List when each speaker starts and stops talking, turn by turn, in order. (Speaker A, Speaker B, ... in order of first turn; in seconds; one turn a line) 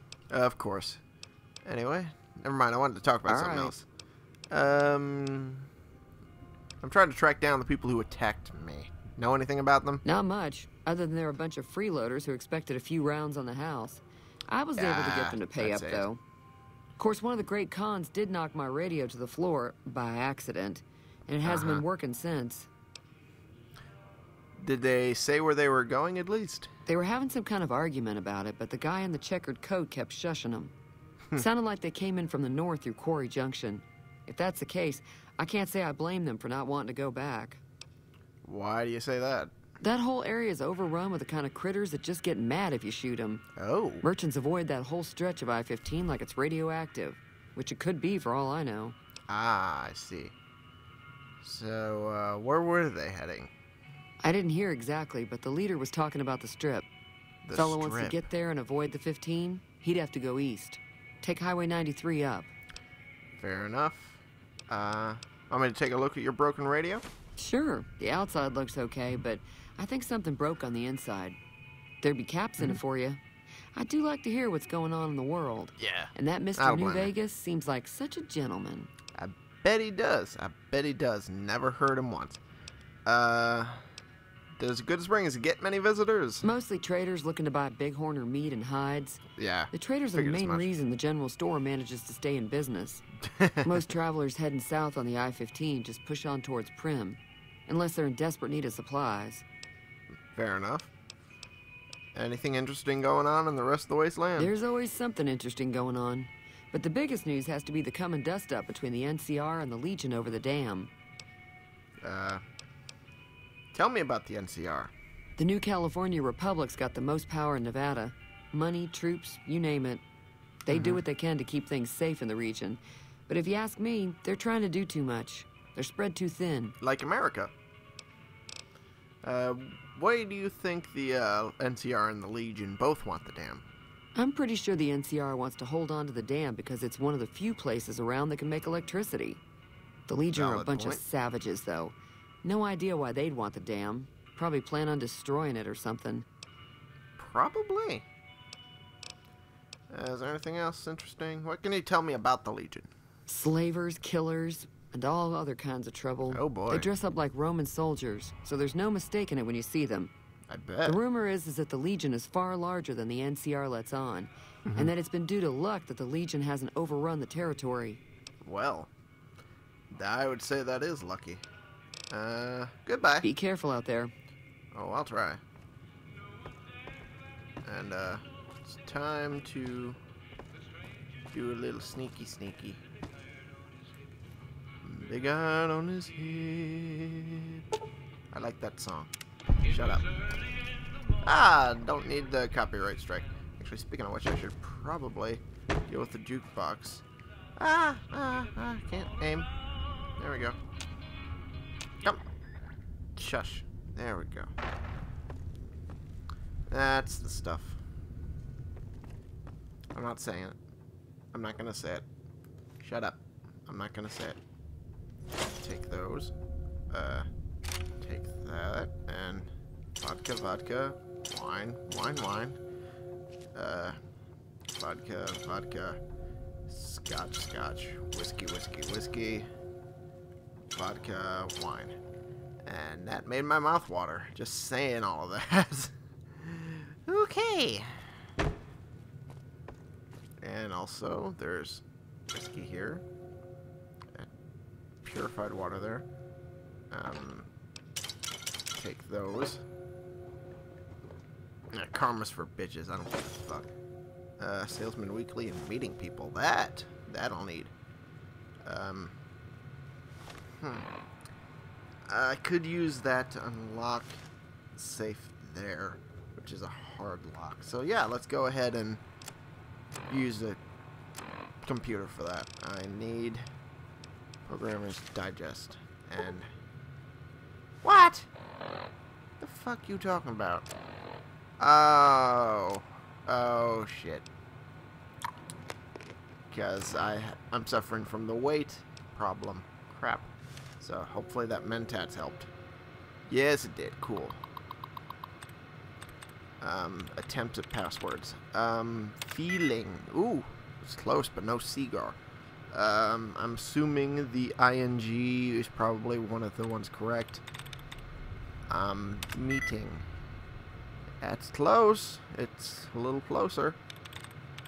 Speaker A: 0.3-1.0
Speaker A: 1.6-3.9
Speaker B: 3.2-3.7
Speaker A: 4.5-5.7
Speaker A: 6.8-10.0
Speaker B: 10.0-16.2
Speaker A: 14.8-16.1
Speaker B: 17.0-22.7
Speaker A: 21.4-21.8
Speaker A: 24.6-26.7
Speaker B: 26.9-30.7
Speaker B: 31.4-37.6
Speaker A: 38.4-39.5
Speaker B: 39.8-43.4
Speaker A: 43.5-44.0
Speaker B: 44.0-48.9
Speaker A: 49.3-50.4
Speaker A: 51.4-53.5
Speaker B: 54.2-56.9
Speaker A: 57.4-58.2
Speaker B: 57.5-62.5
Speaker A: 63.4-67.0
Speaker B: 67.4-71.4
Speaker B: 72.0-73.2
Speaker B: 73.7-78.9
Speaker A: 75.8-77.1
Speaker A: 79.1-82.4
Speaker A: 83.0-83.8
Speaker A: 84.6-86.5
Speaker B: 86.4-93.0
Speaker A: 89.3-90.7
Speaker A: 93.3-93.7
Speaker B: 93.6-99.4
Speaker A: 100.3-100.9
Speaker A: 102.1-104.5
Speaker B: 104.3-110.9
Speaker A: 112.0-112.4
Speaker A: 113.7-114.9
Speaker B: 115.4-120.0
Speaker B: 120.6-126.8
Speaker A: 120.7-121.0
Speaker A: 126.8-127.5
Speaker A: 129.2-133.6
Speaker B: 134.1-139.4
Speaker B: 140.1-146.2
Speaker A: 140.3-141.0
Speaker A: 147.2-148.1
Speaker A: 149.9-152.9
Speaker B: 153.3-160.1
Speaker A: 156.3-156.9
Speaker A: 160.5-161.0
Speaker B: 160.8-168.0
Speaker A: 164.7-164.9
Speaker A: 168.4-168.9
Speaker A: 169.9-171.4
Speaker A: 172.1-173.3
Speaker B: 173.2-174.1
Speaker A: 174.7-175.4
Speaker A: 177.6-180.0
Speaker A: 181.3-182.8
Speaker A: 184.8-187.6
Speaker A: 188.3-189.1
Speaker A: 189.6-190.1
Speaker A: 191.2-197.0
Speaker A: 197.6-199.5
Speaker A: 200.2-200.6
Speaker A: 203.2-204.5
Speaker A: 206.7-207.8
Speaker A: 209.9-210.6
Speaker A: 211.3-212.1
Speaker A: 212.8-214.4
Speaker A: 215.5-216.3
Speaker A: 216.9-217.3
Speaker A: 218.0-222.6
Speaker A: 223.5-224.0
Speaker A: 224.7-226.0
Speaker A: 226.7-229.5
Speaker A: 230.7-232.0
Speaker A: 232.7-238.0
Speaker A: 240.4-243.0
Speaker A: 245.0-246.1
Speaker A: 246.9-247.5
Speaker A: 248.7-249.6
Speaker A: 251.7-253.7
Speaker A: 254.4-257.7
Speaker A: 258.6-259.1
Speaker A: 260.6-260.9
Speaker A: 262.1-264.2
Speaker A: 264.7-269.0
Speaker A: 270.1-270.6
Speaker A: 271.6-273.5
Speaker A: 274.5-276.5
Speaker A: 277.8-278.3
Speaker A: 279.4-280.7
Speaker A: 281.6-284.2
Speaker A: 286.5-292.5
Speaker A: 293.3-294.4
Speaker A: 296.6-302.2
Speaker A: 302.7-307.4
Speaker A: 308.7-310.1
Speaker A: 311.2-313.8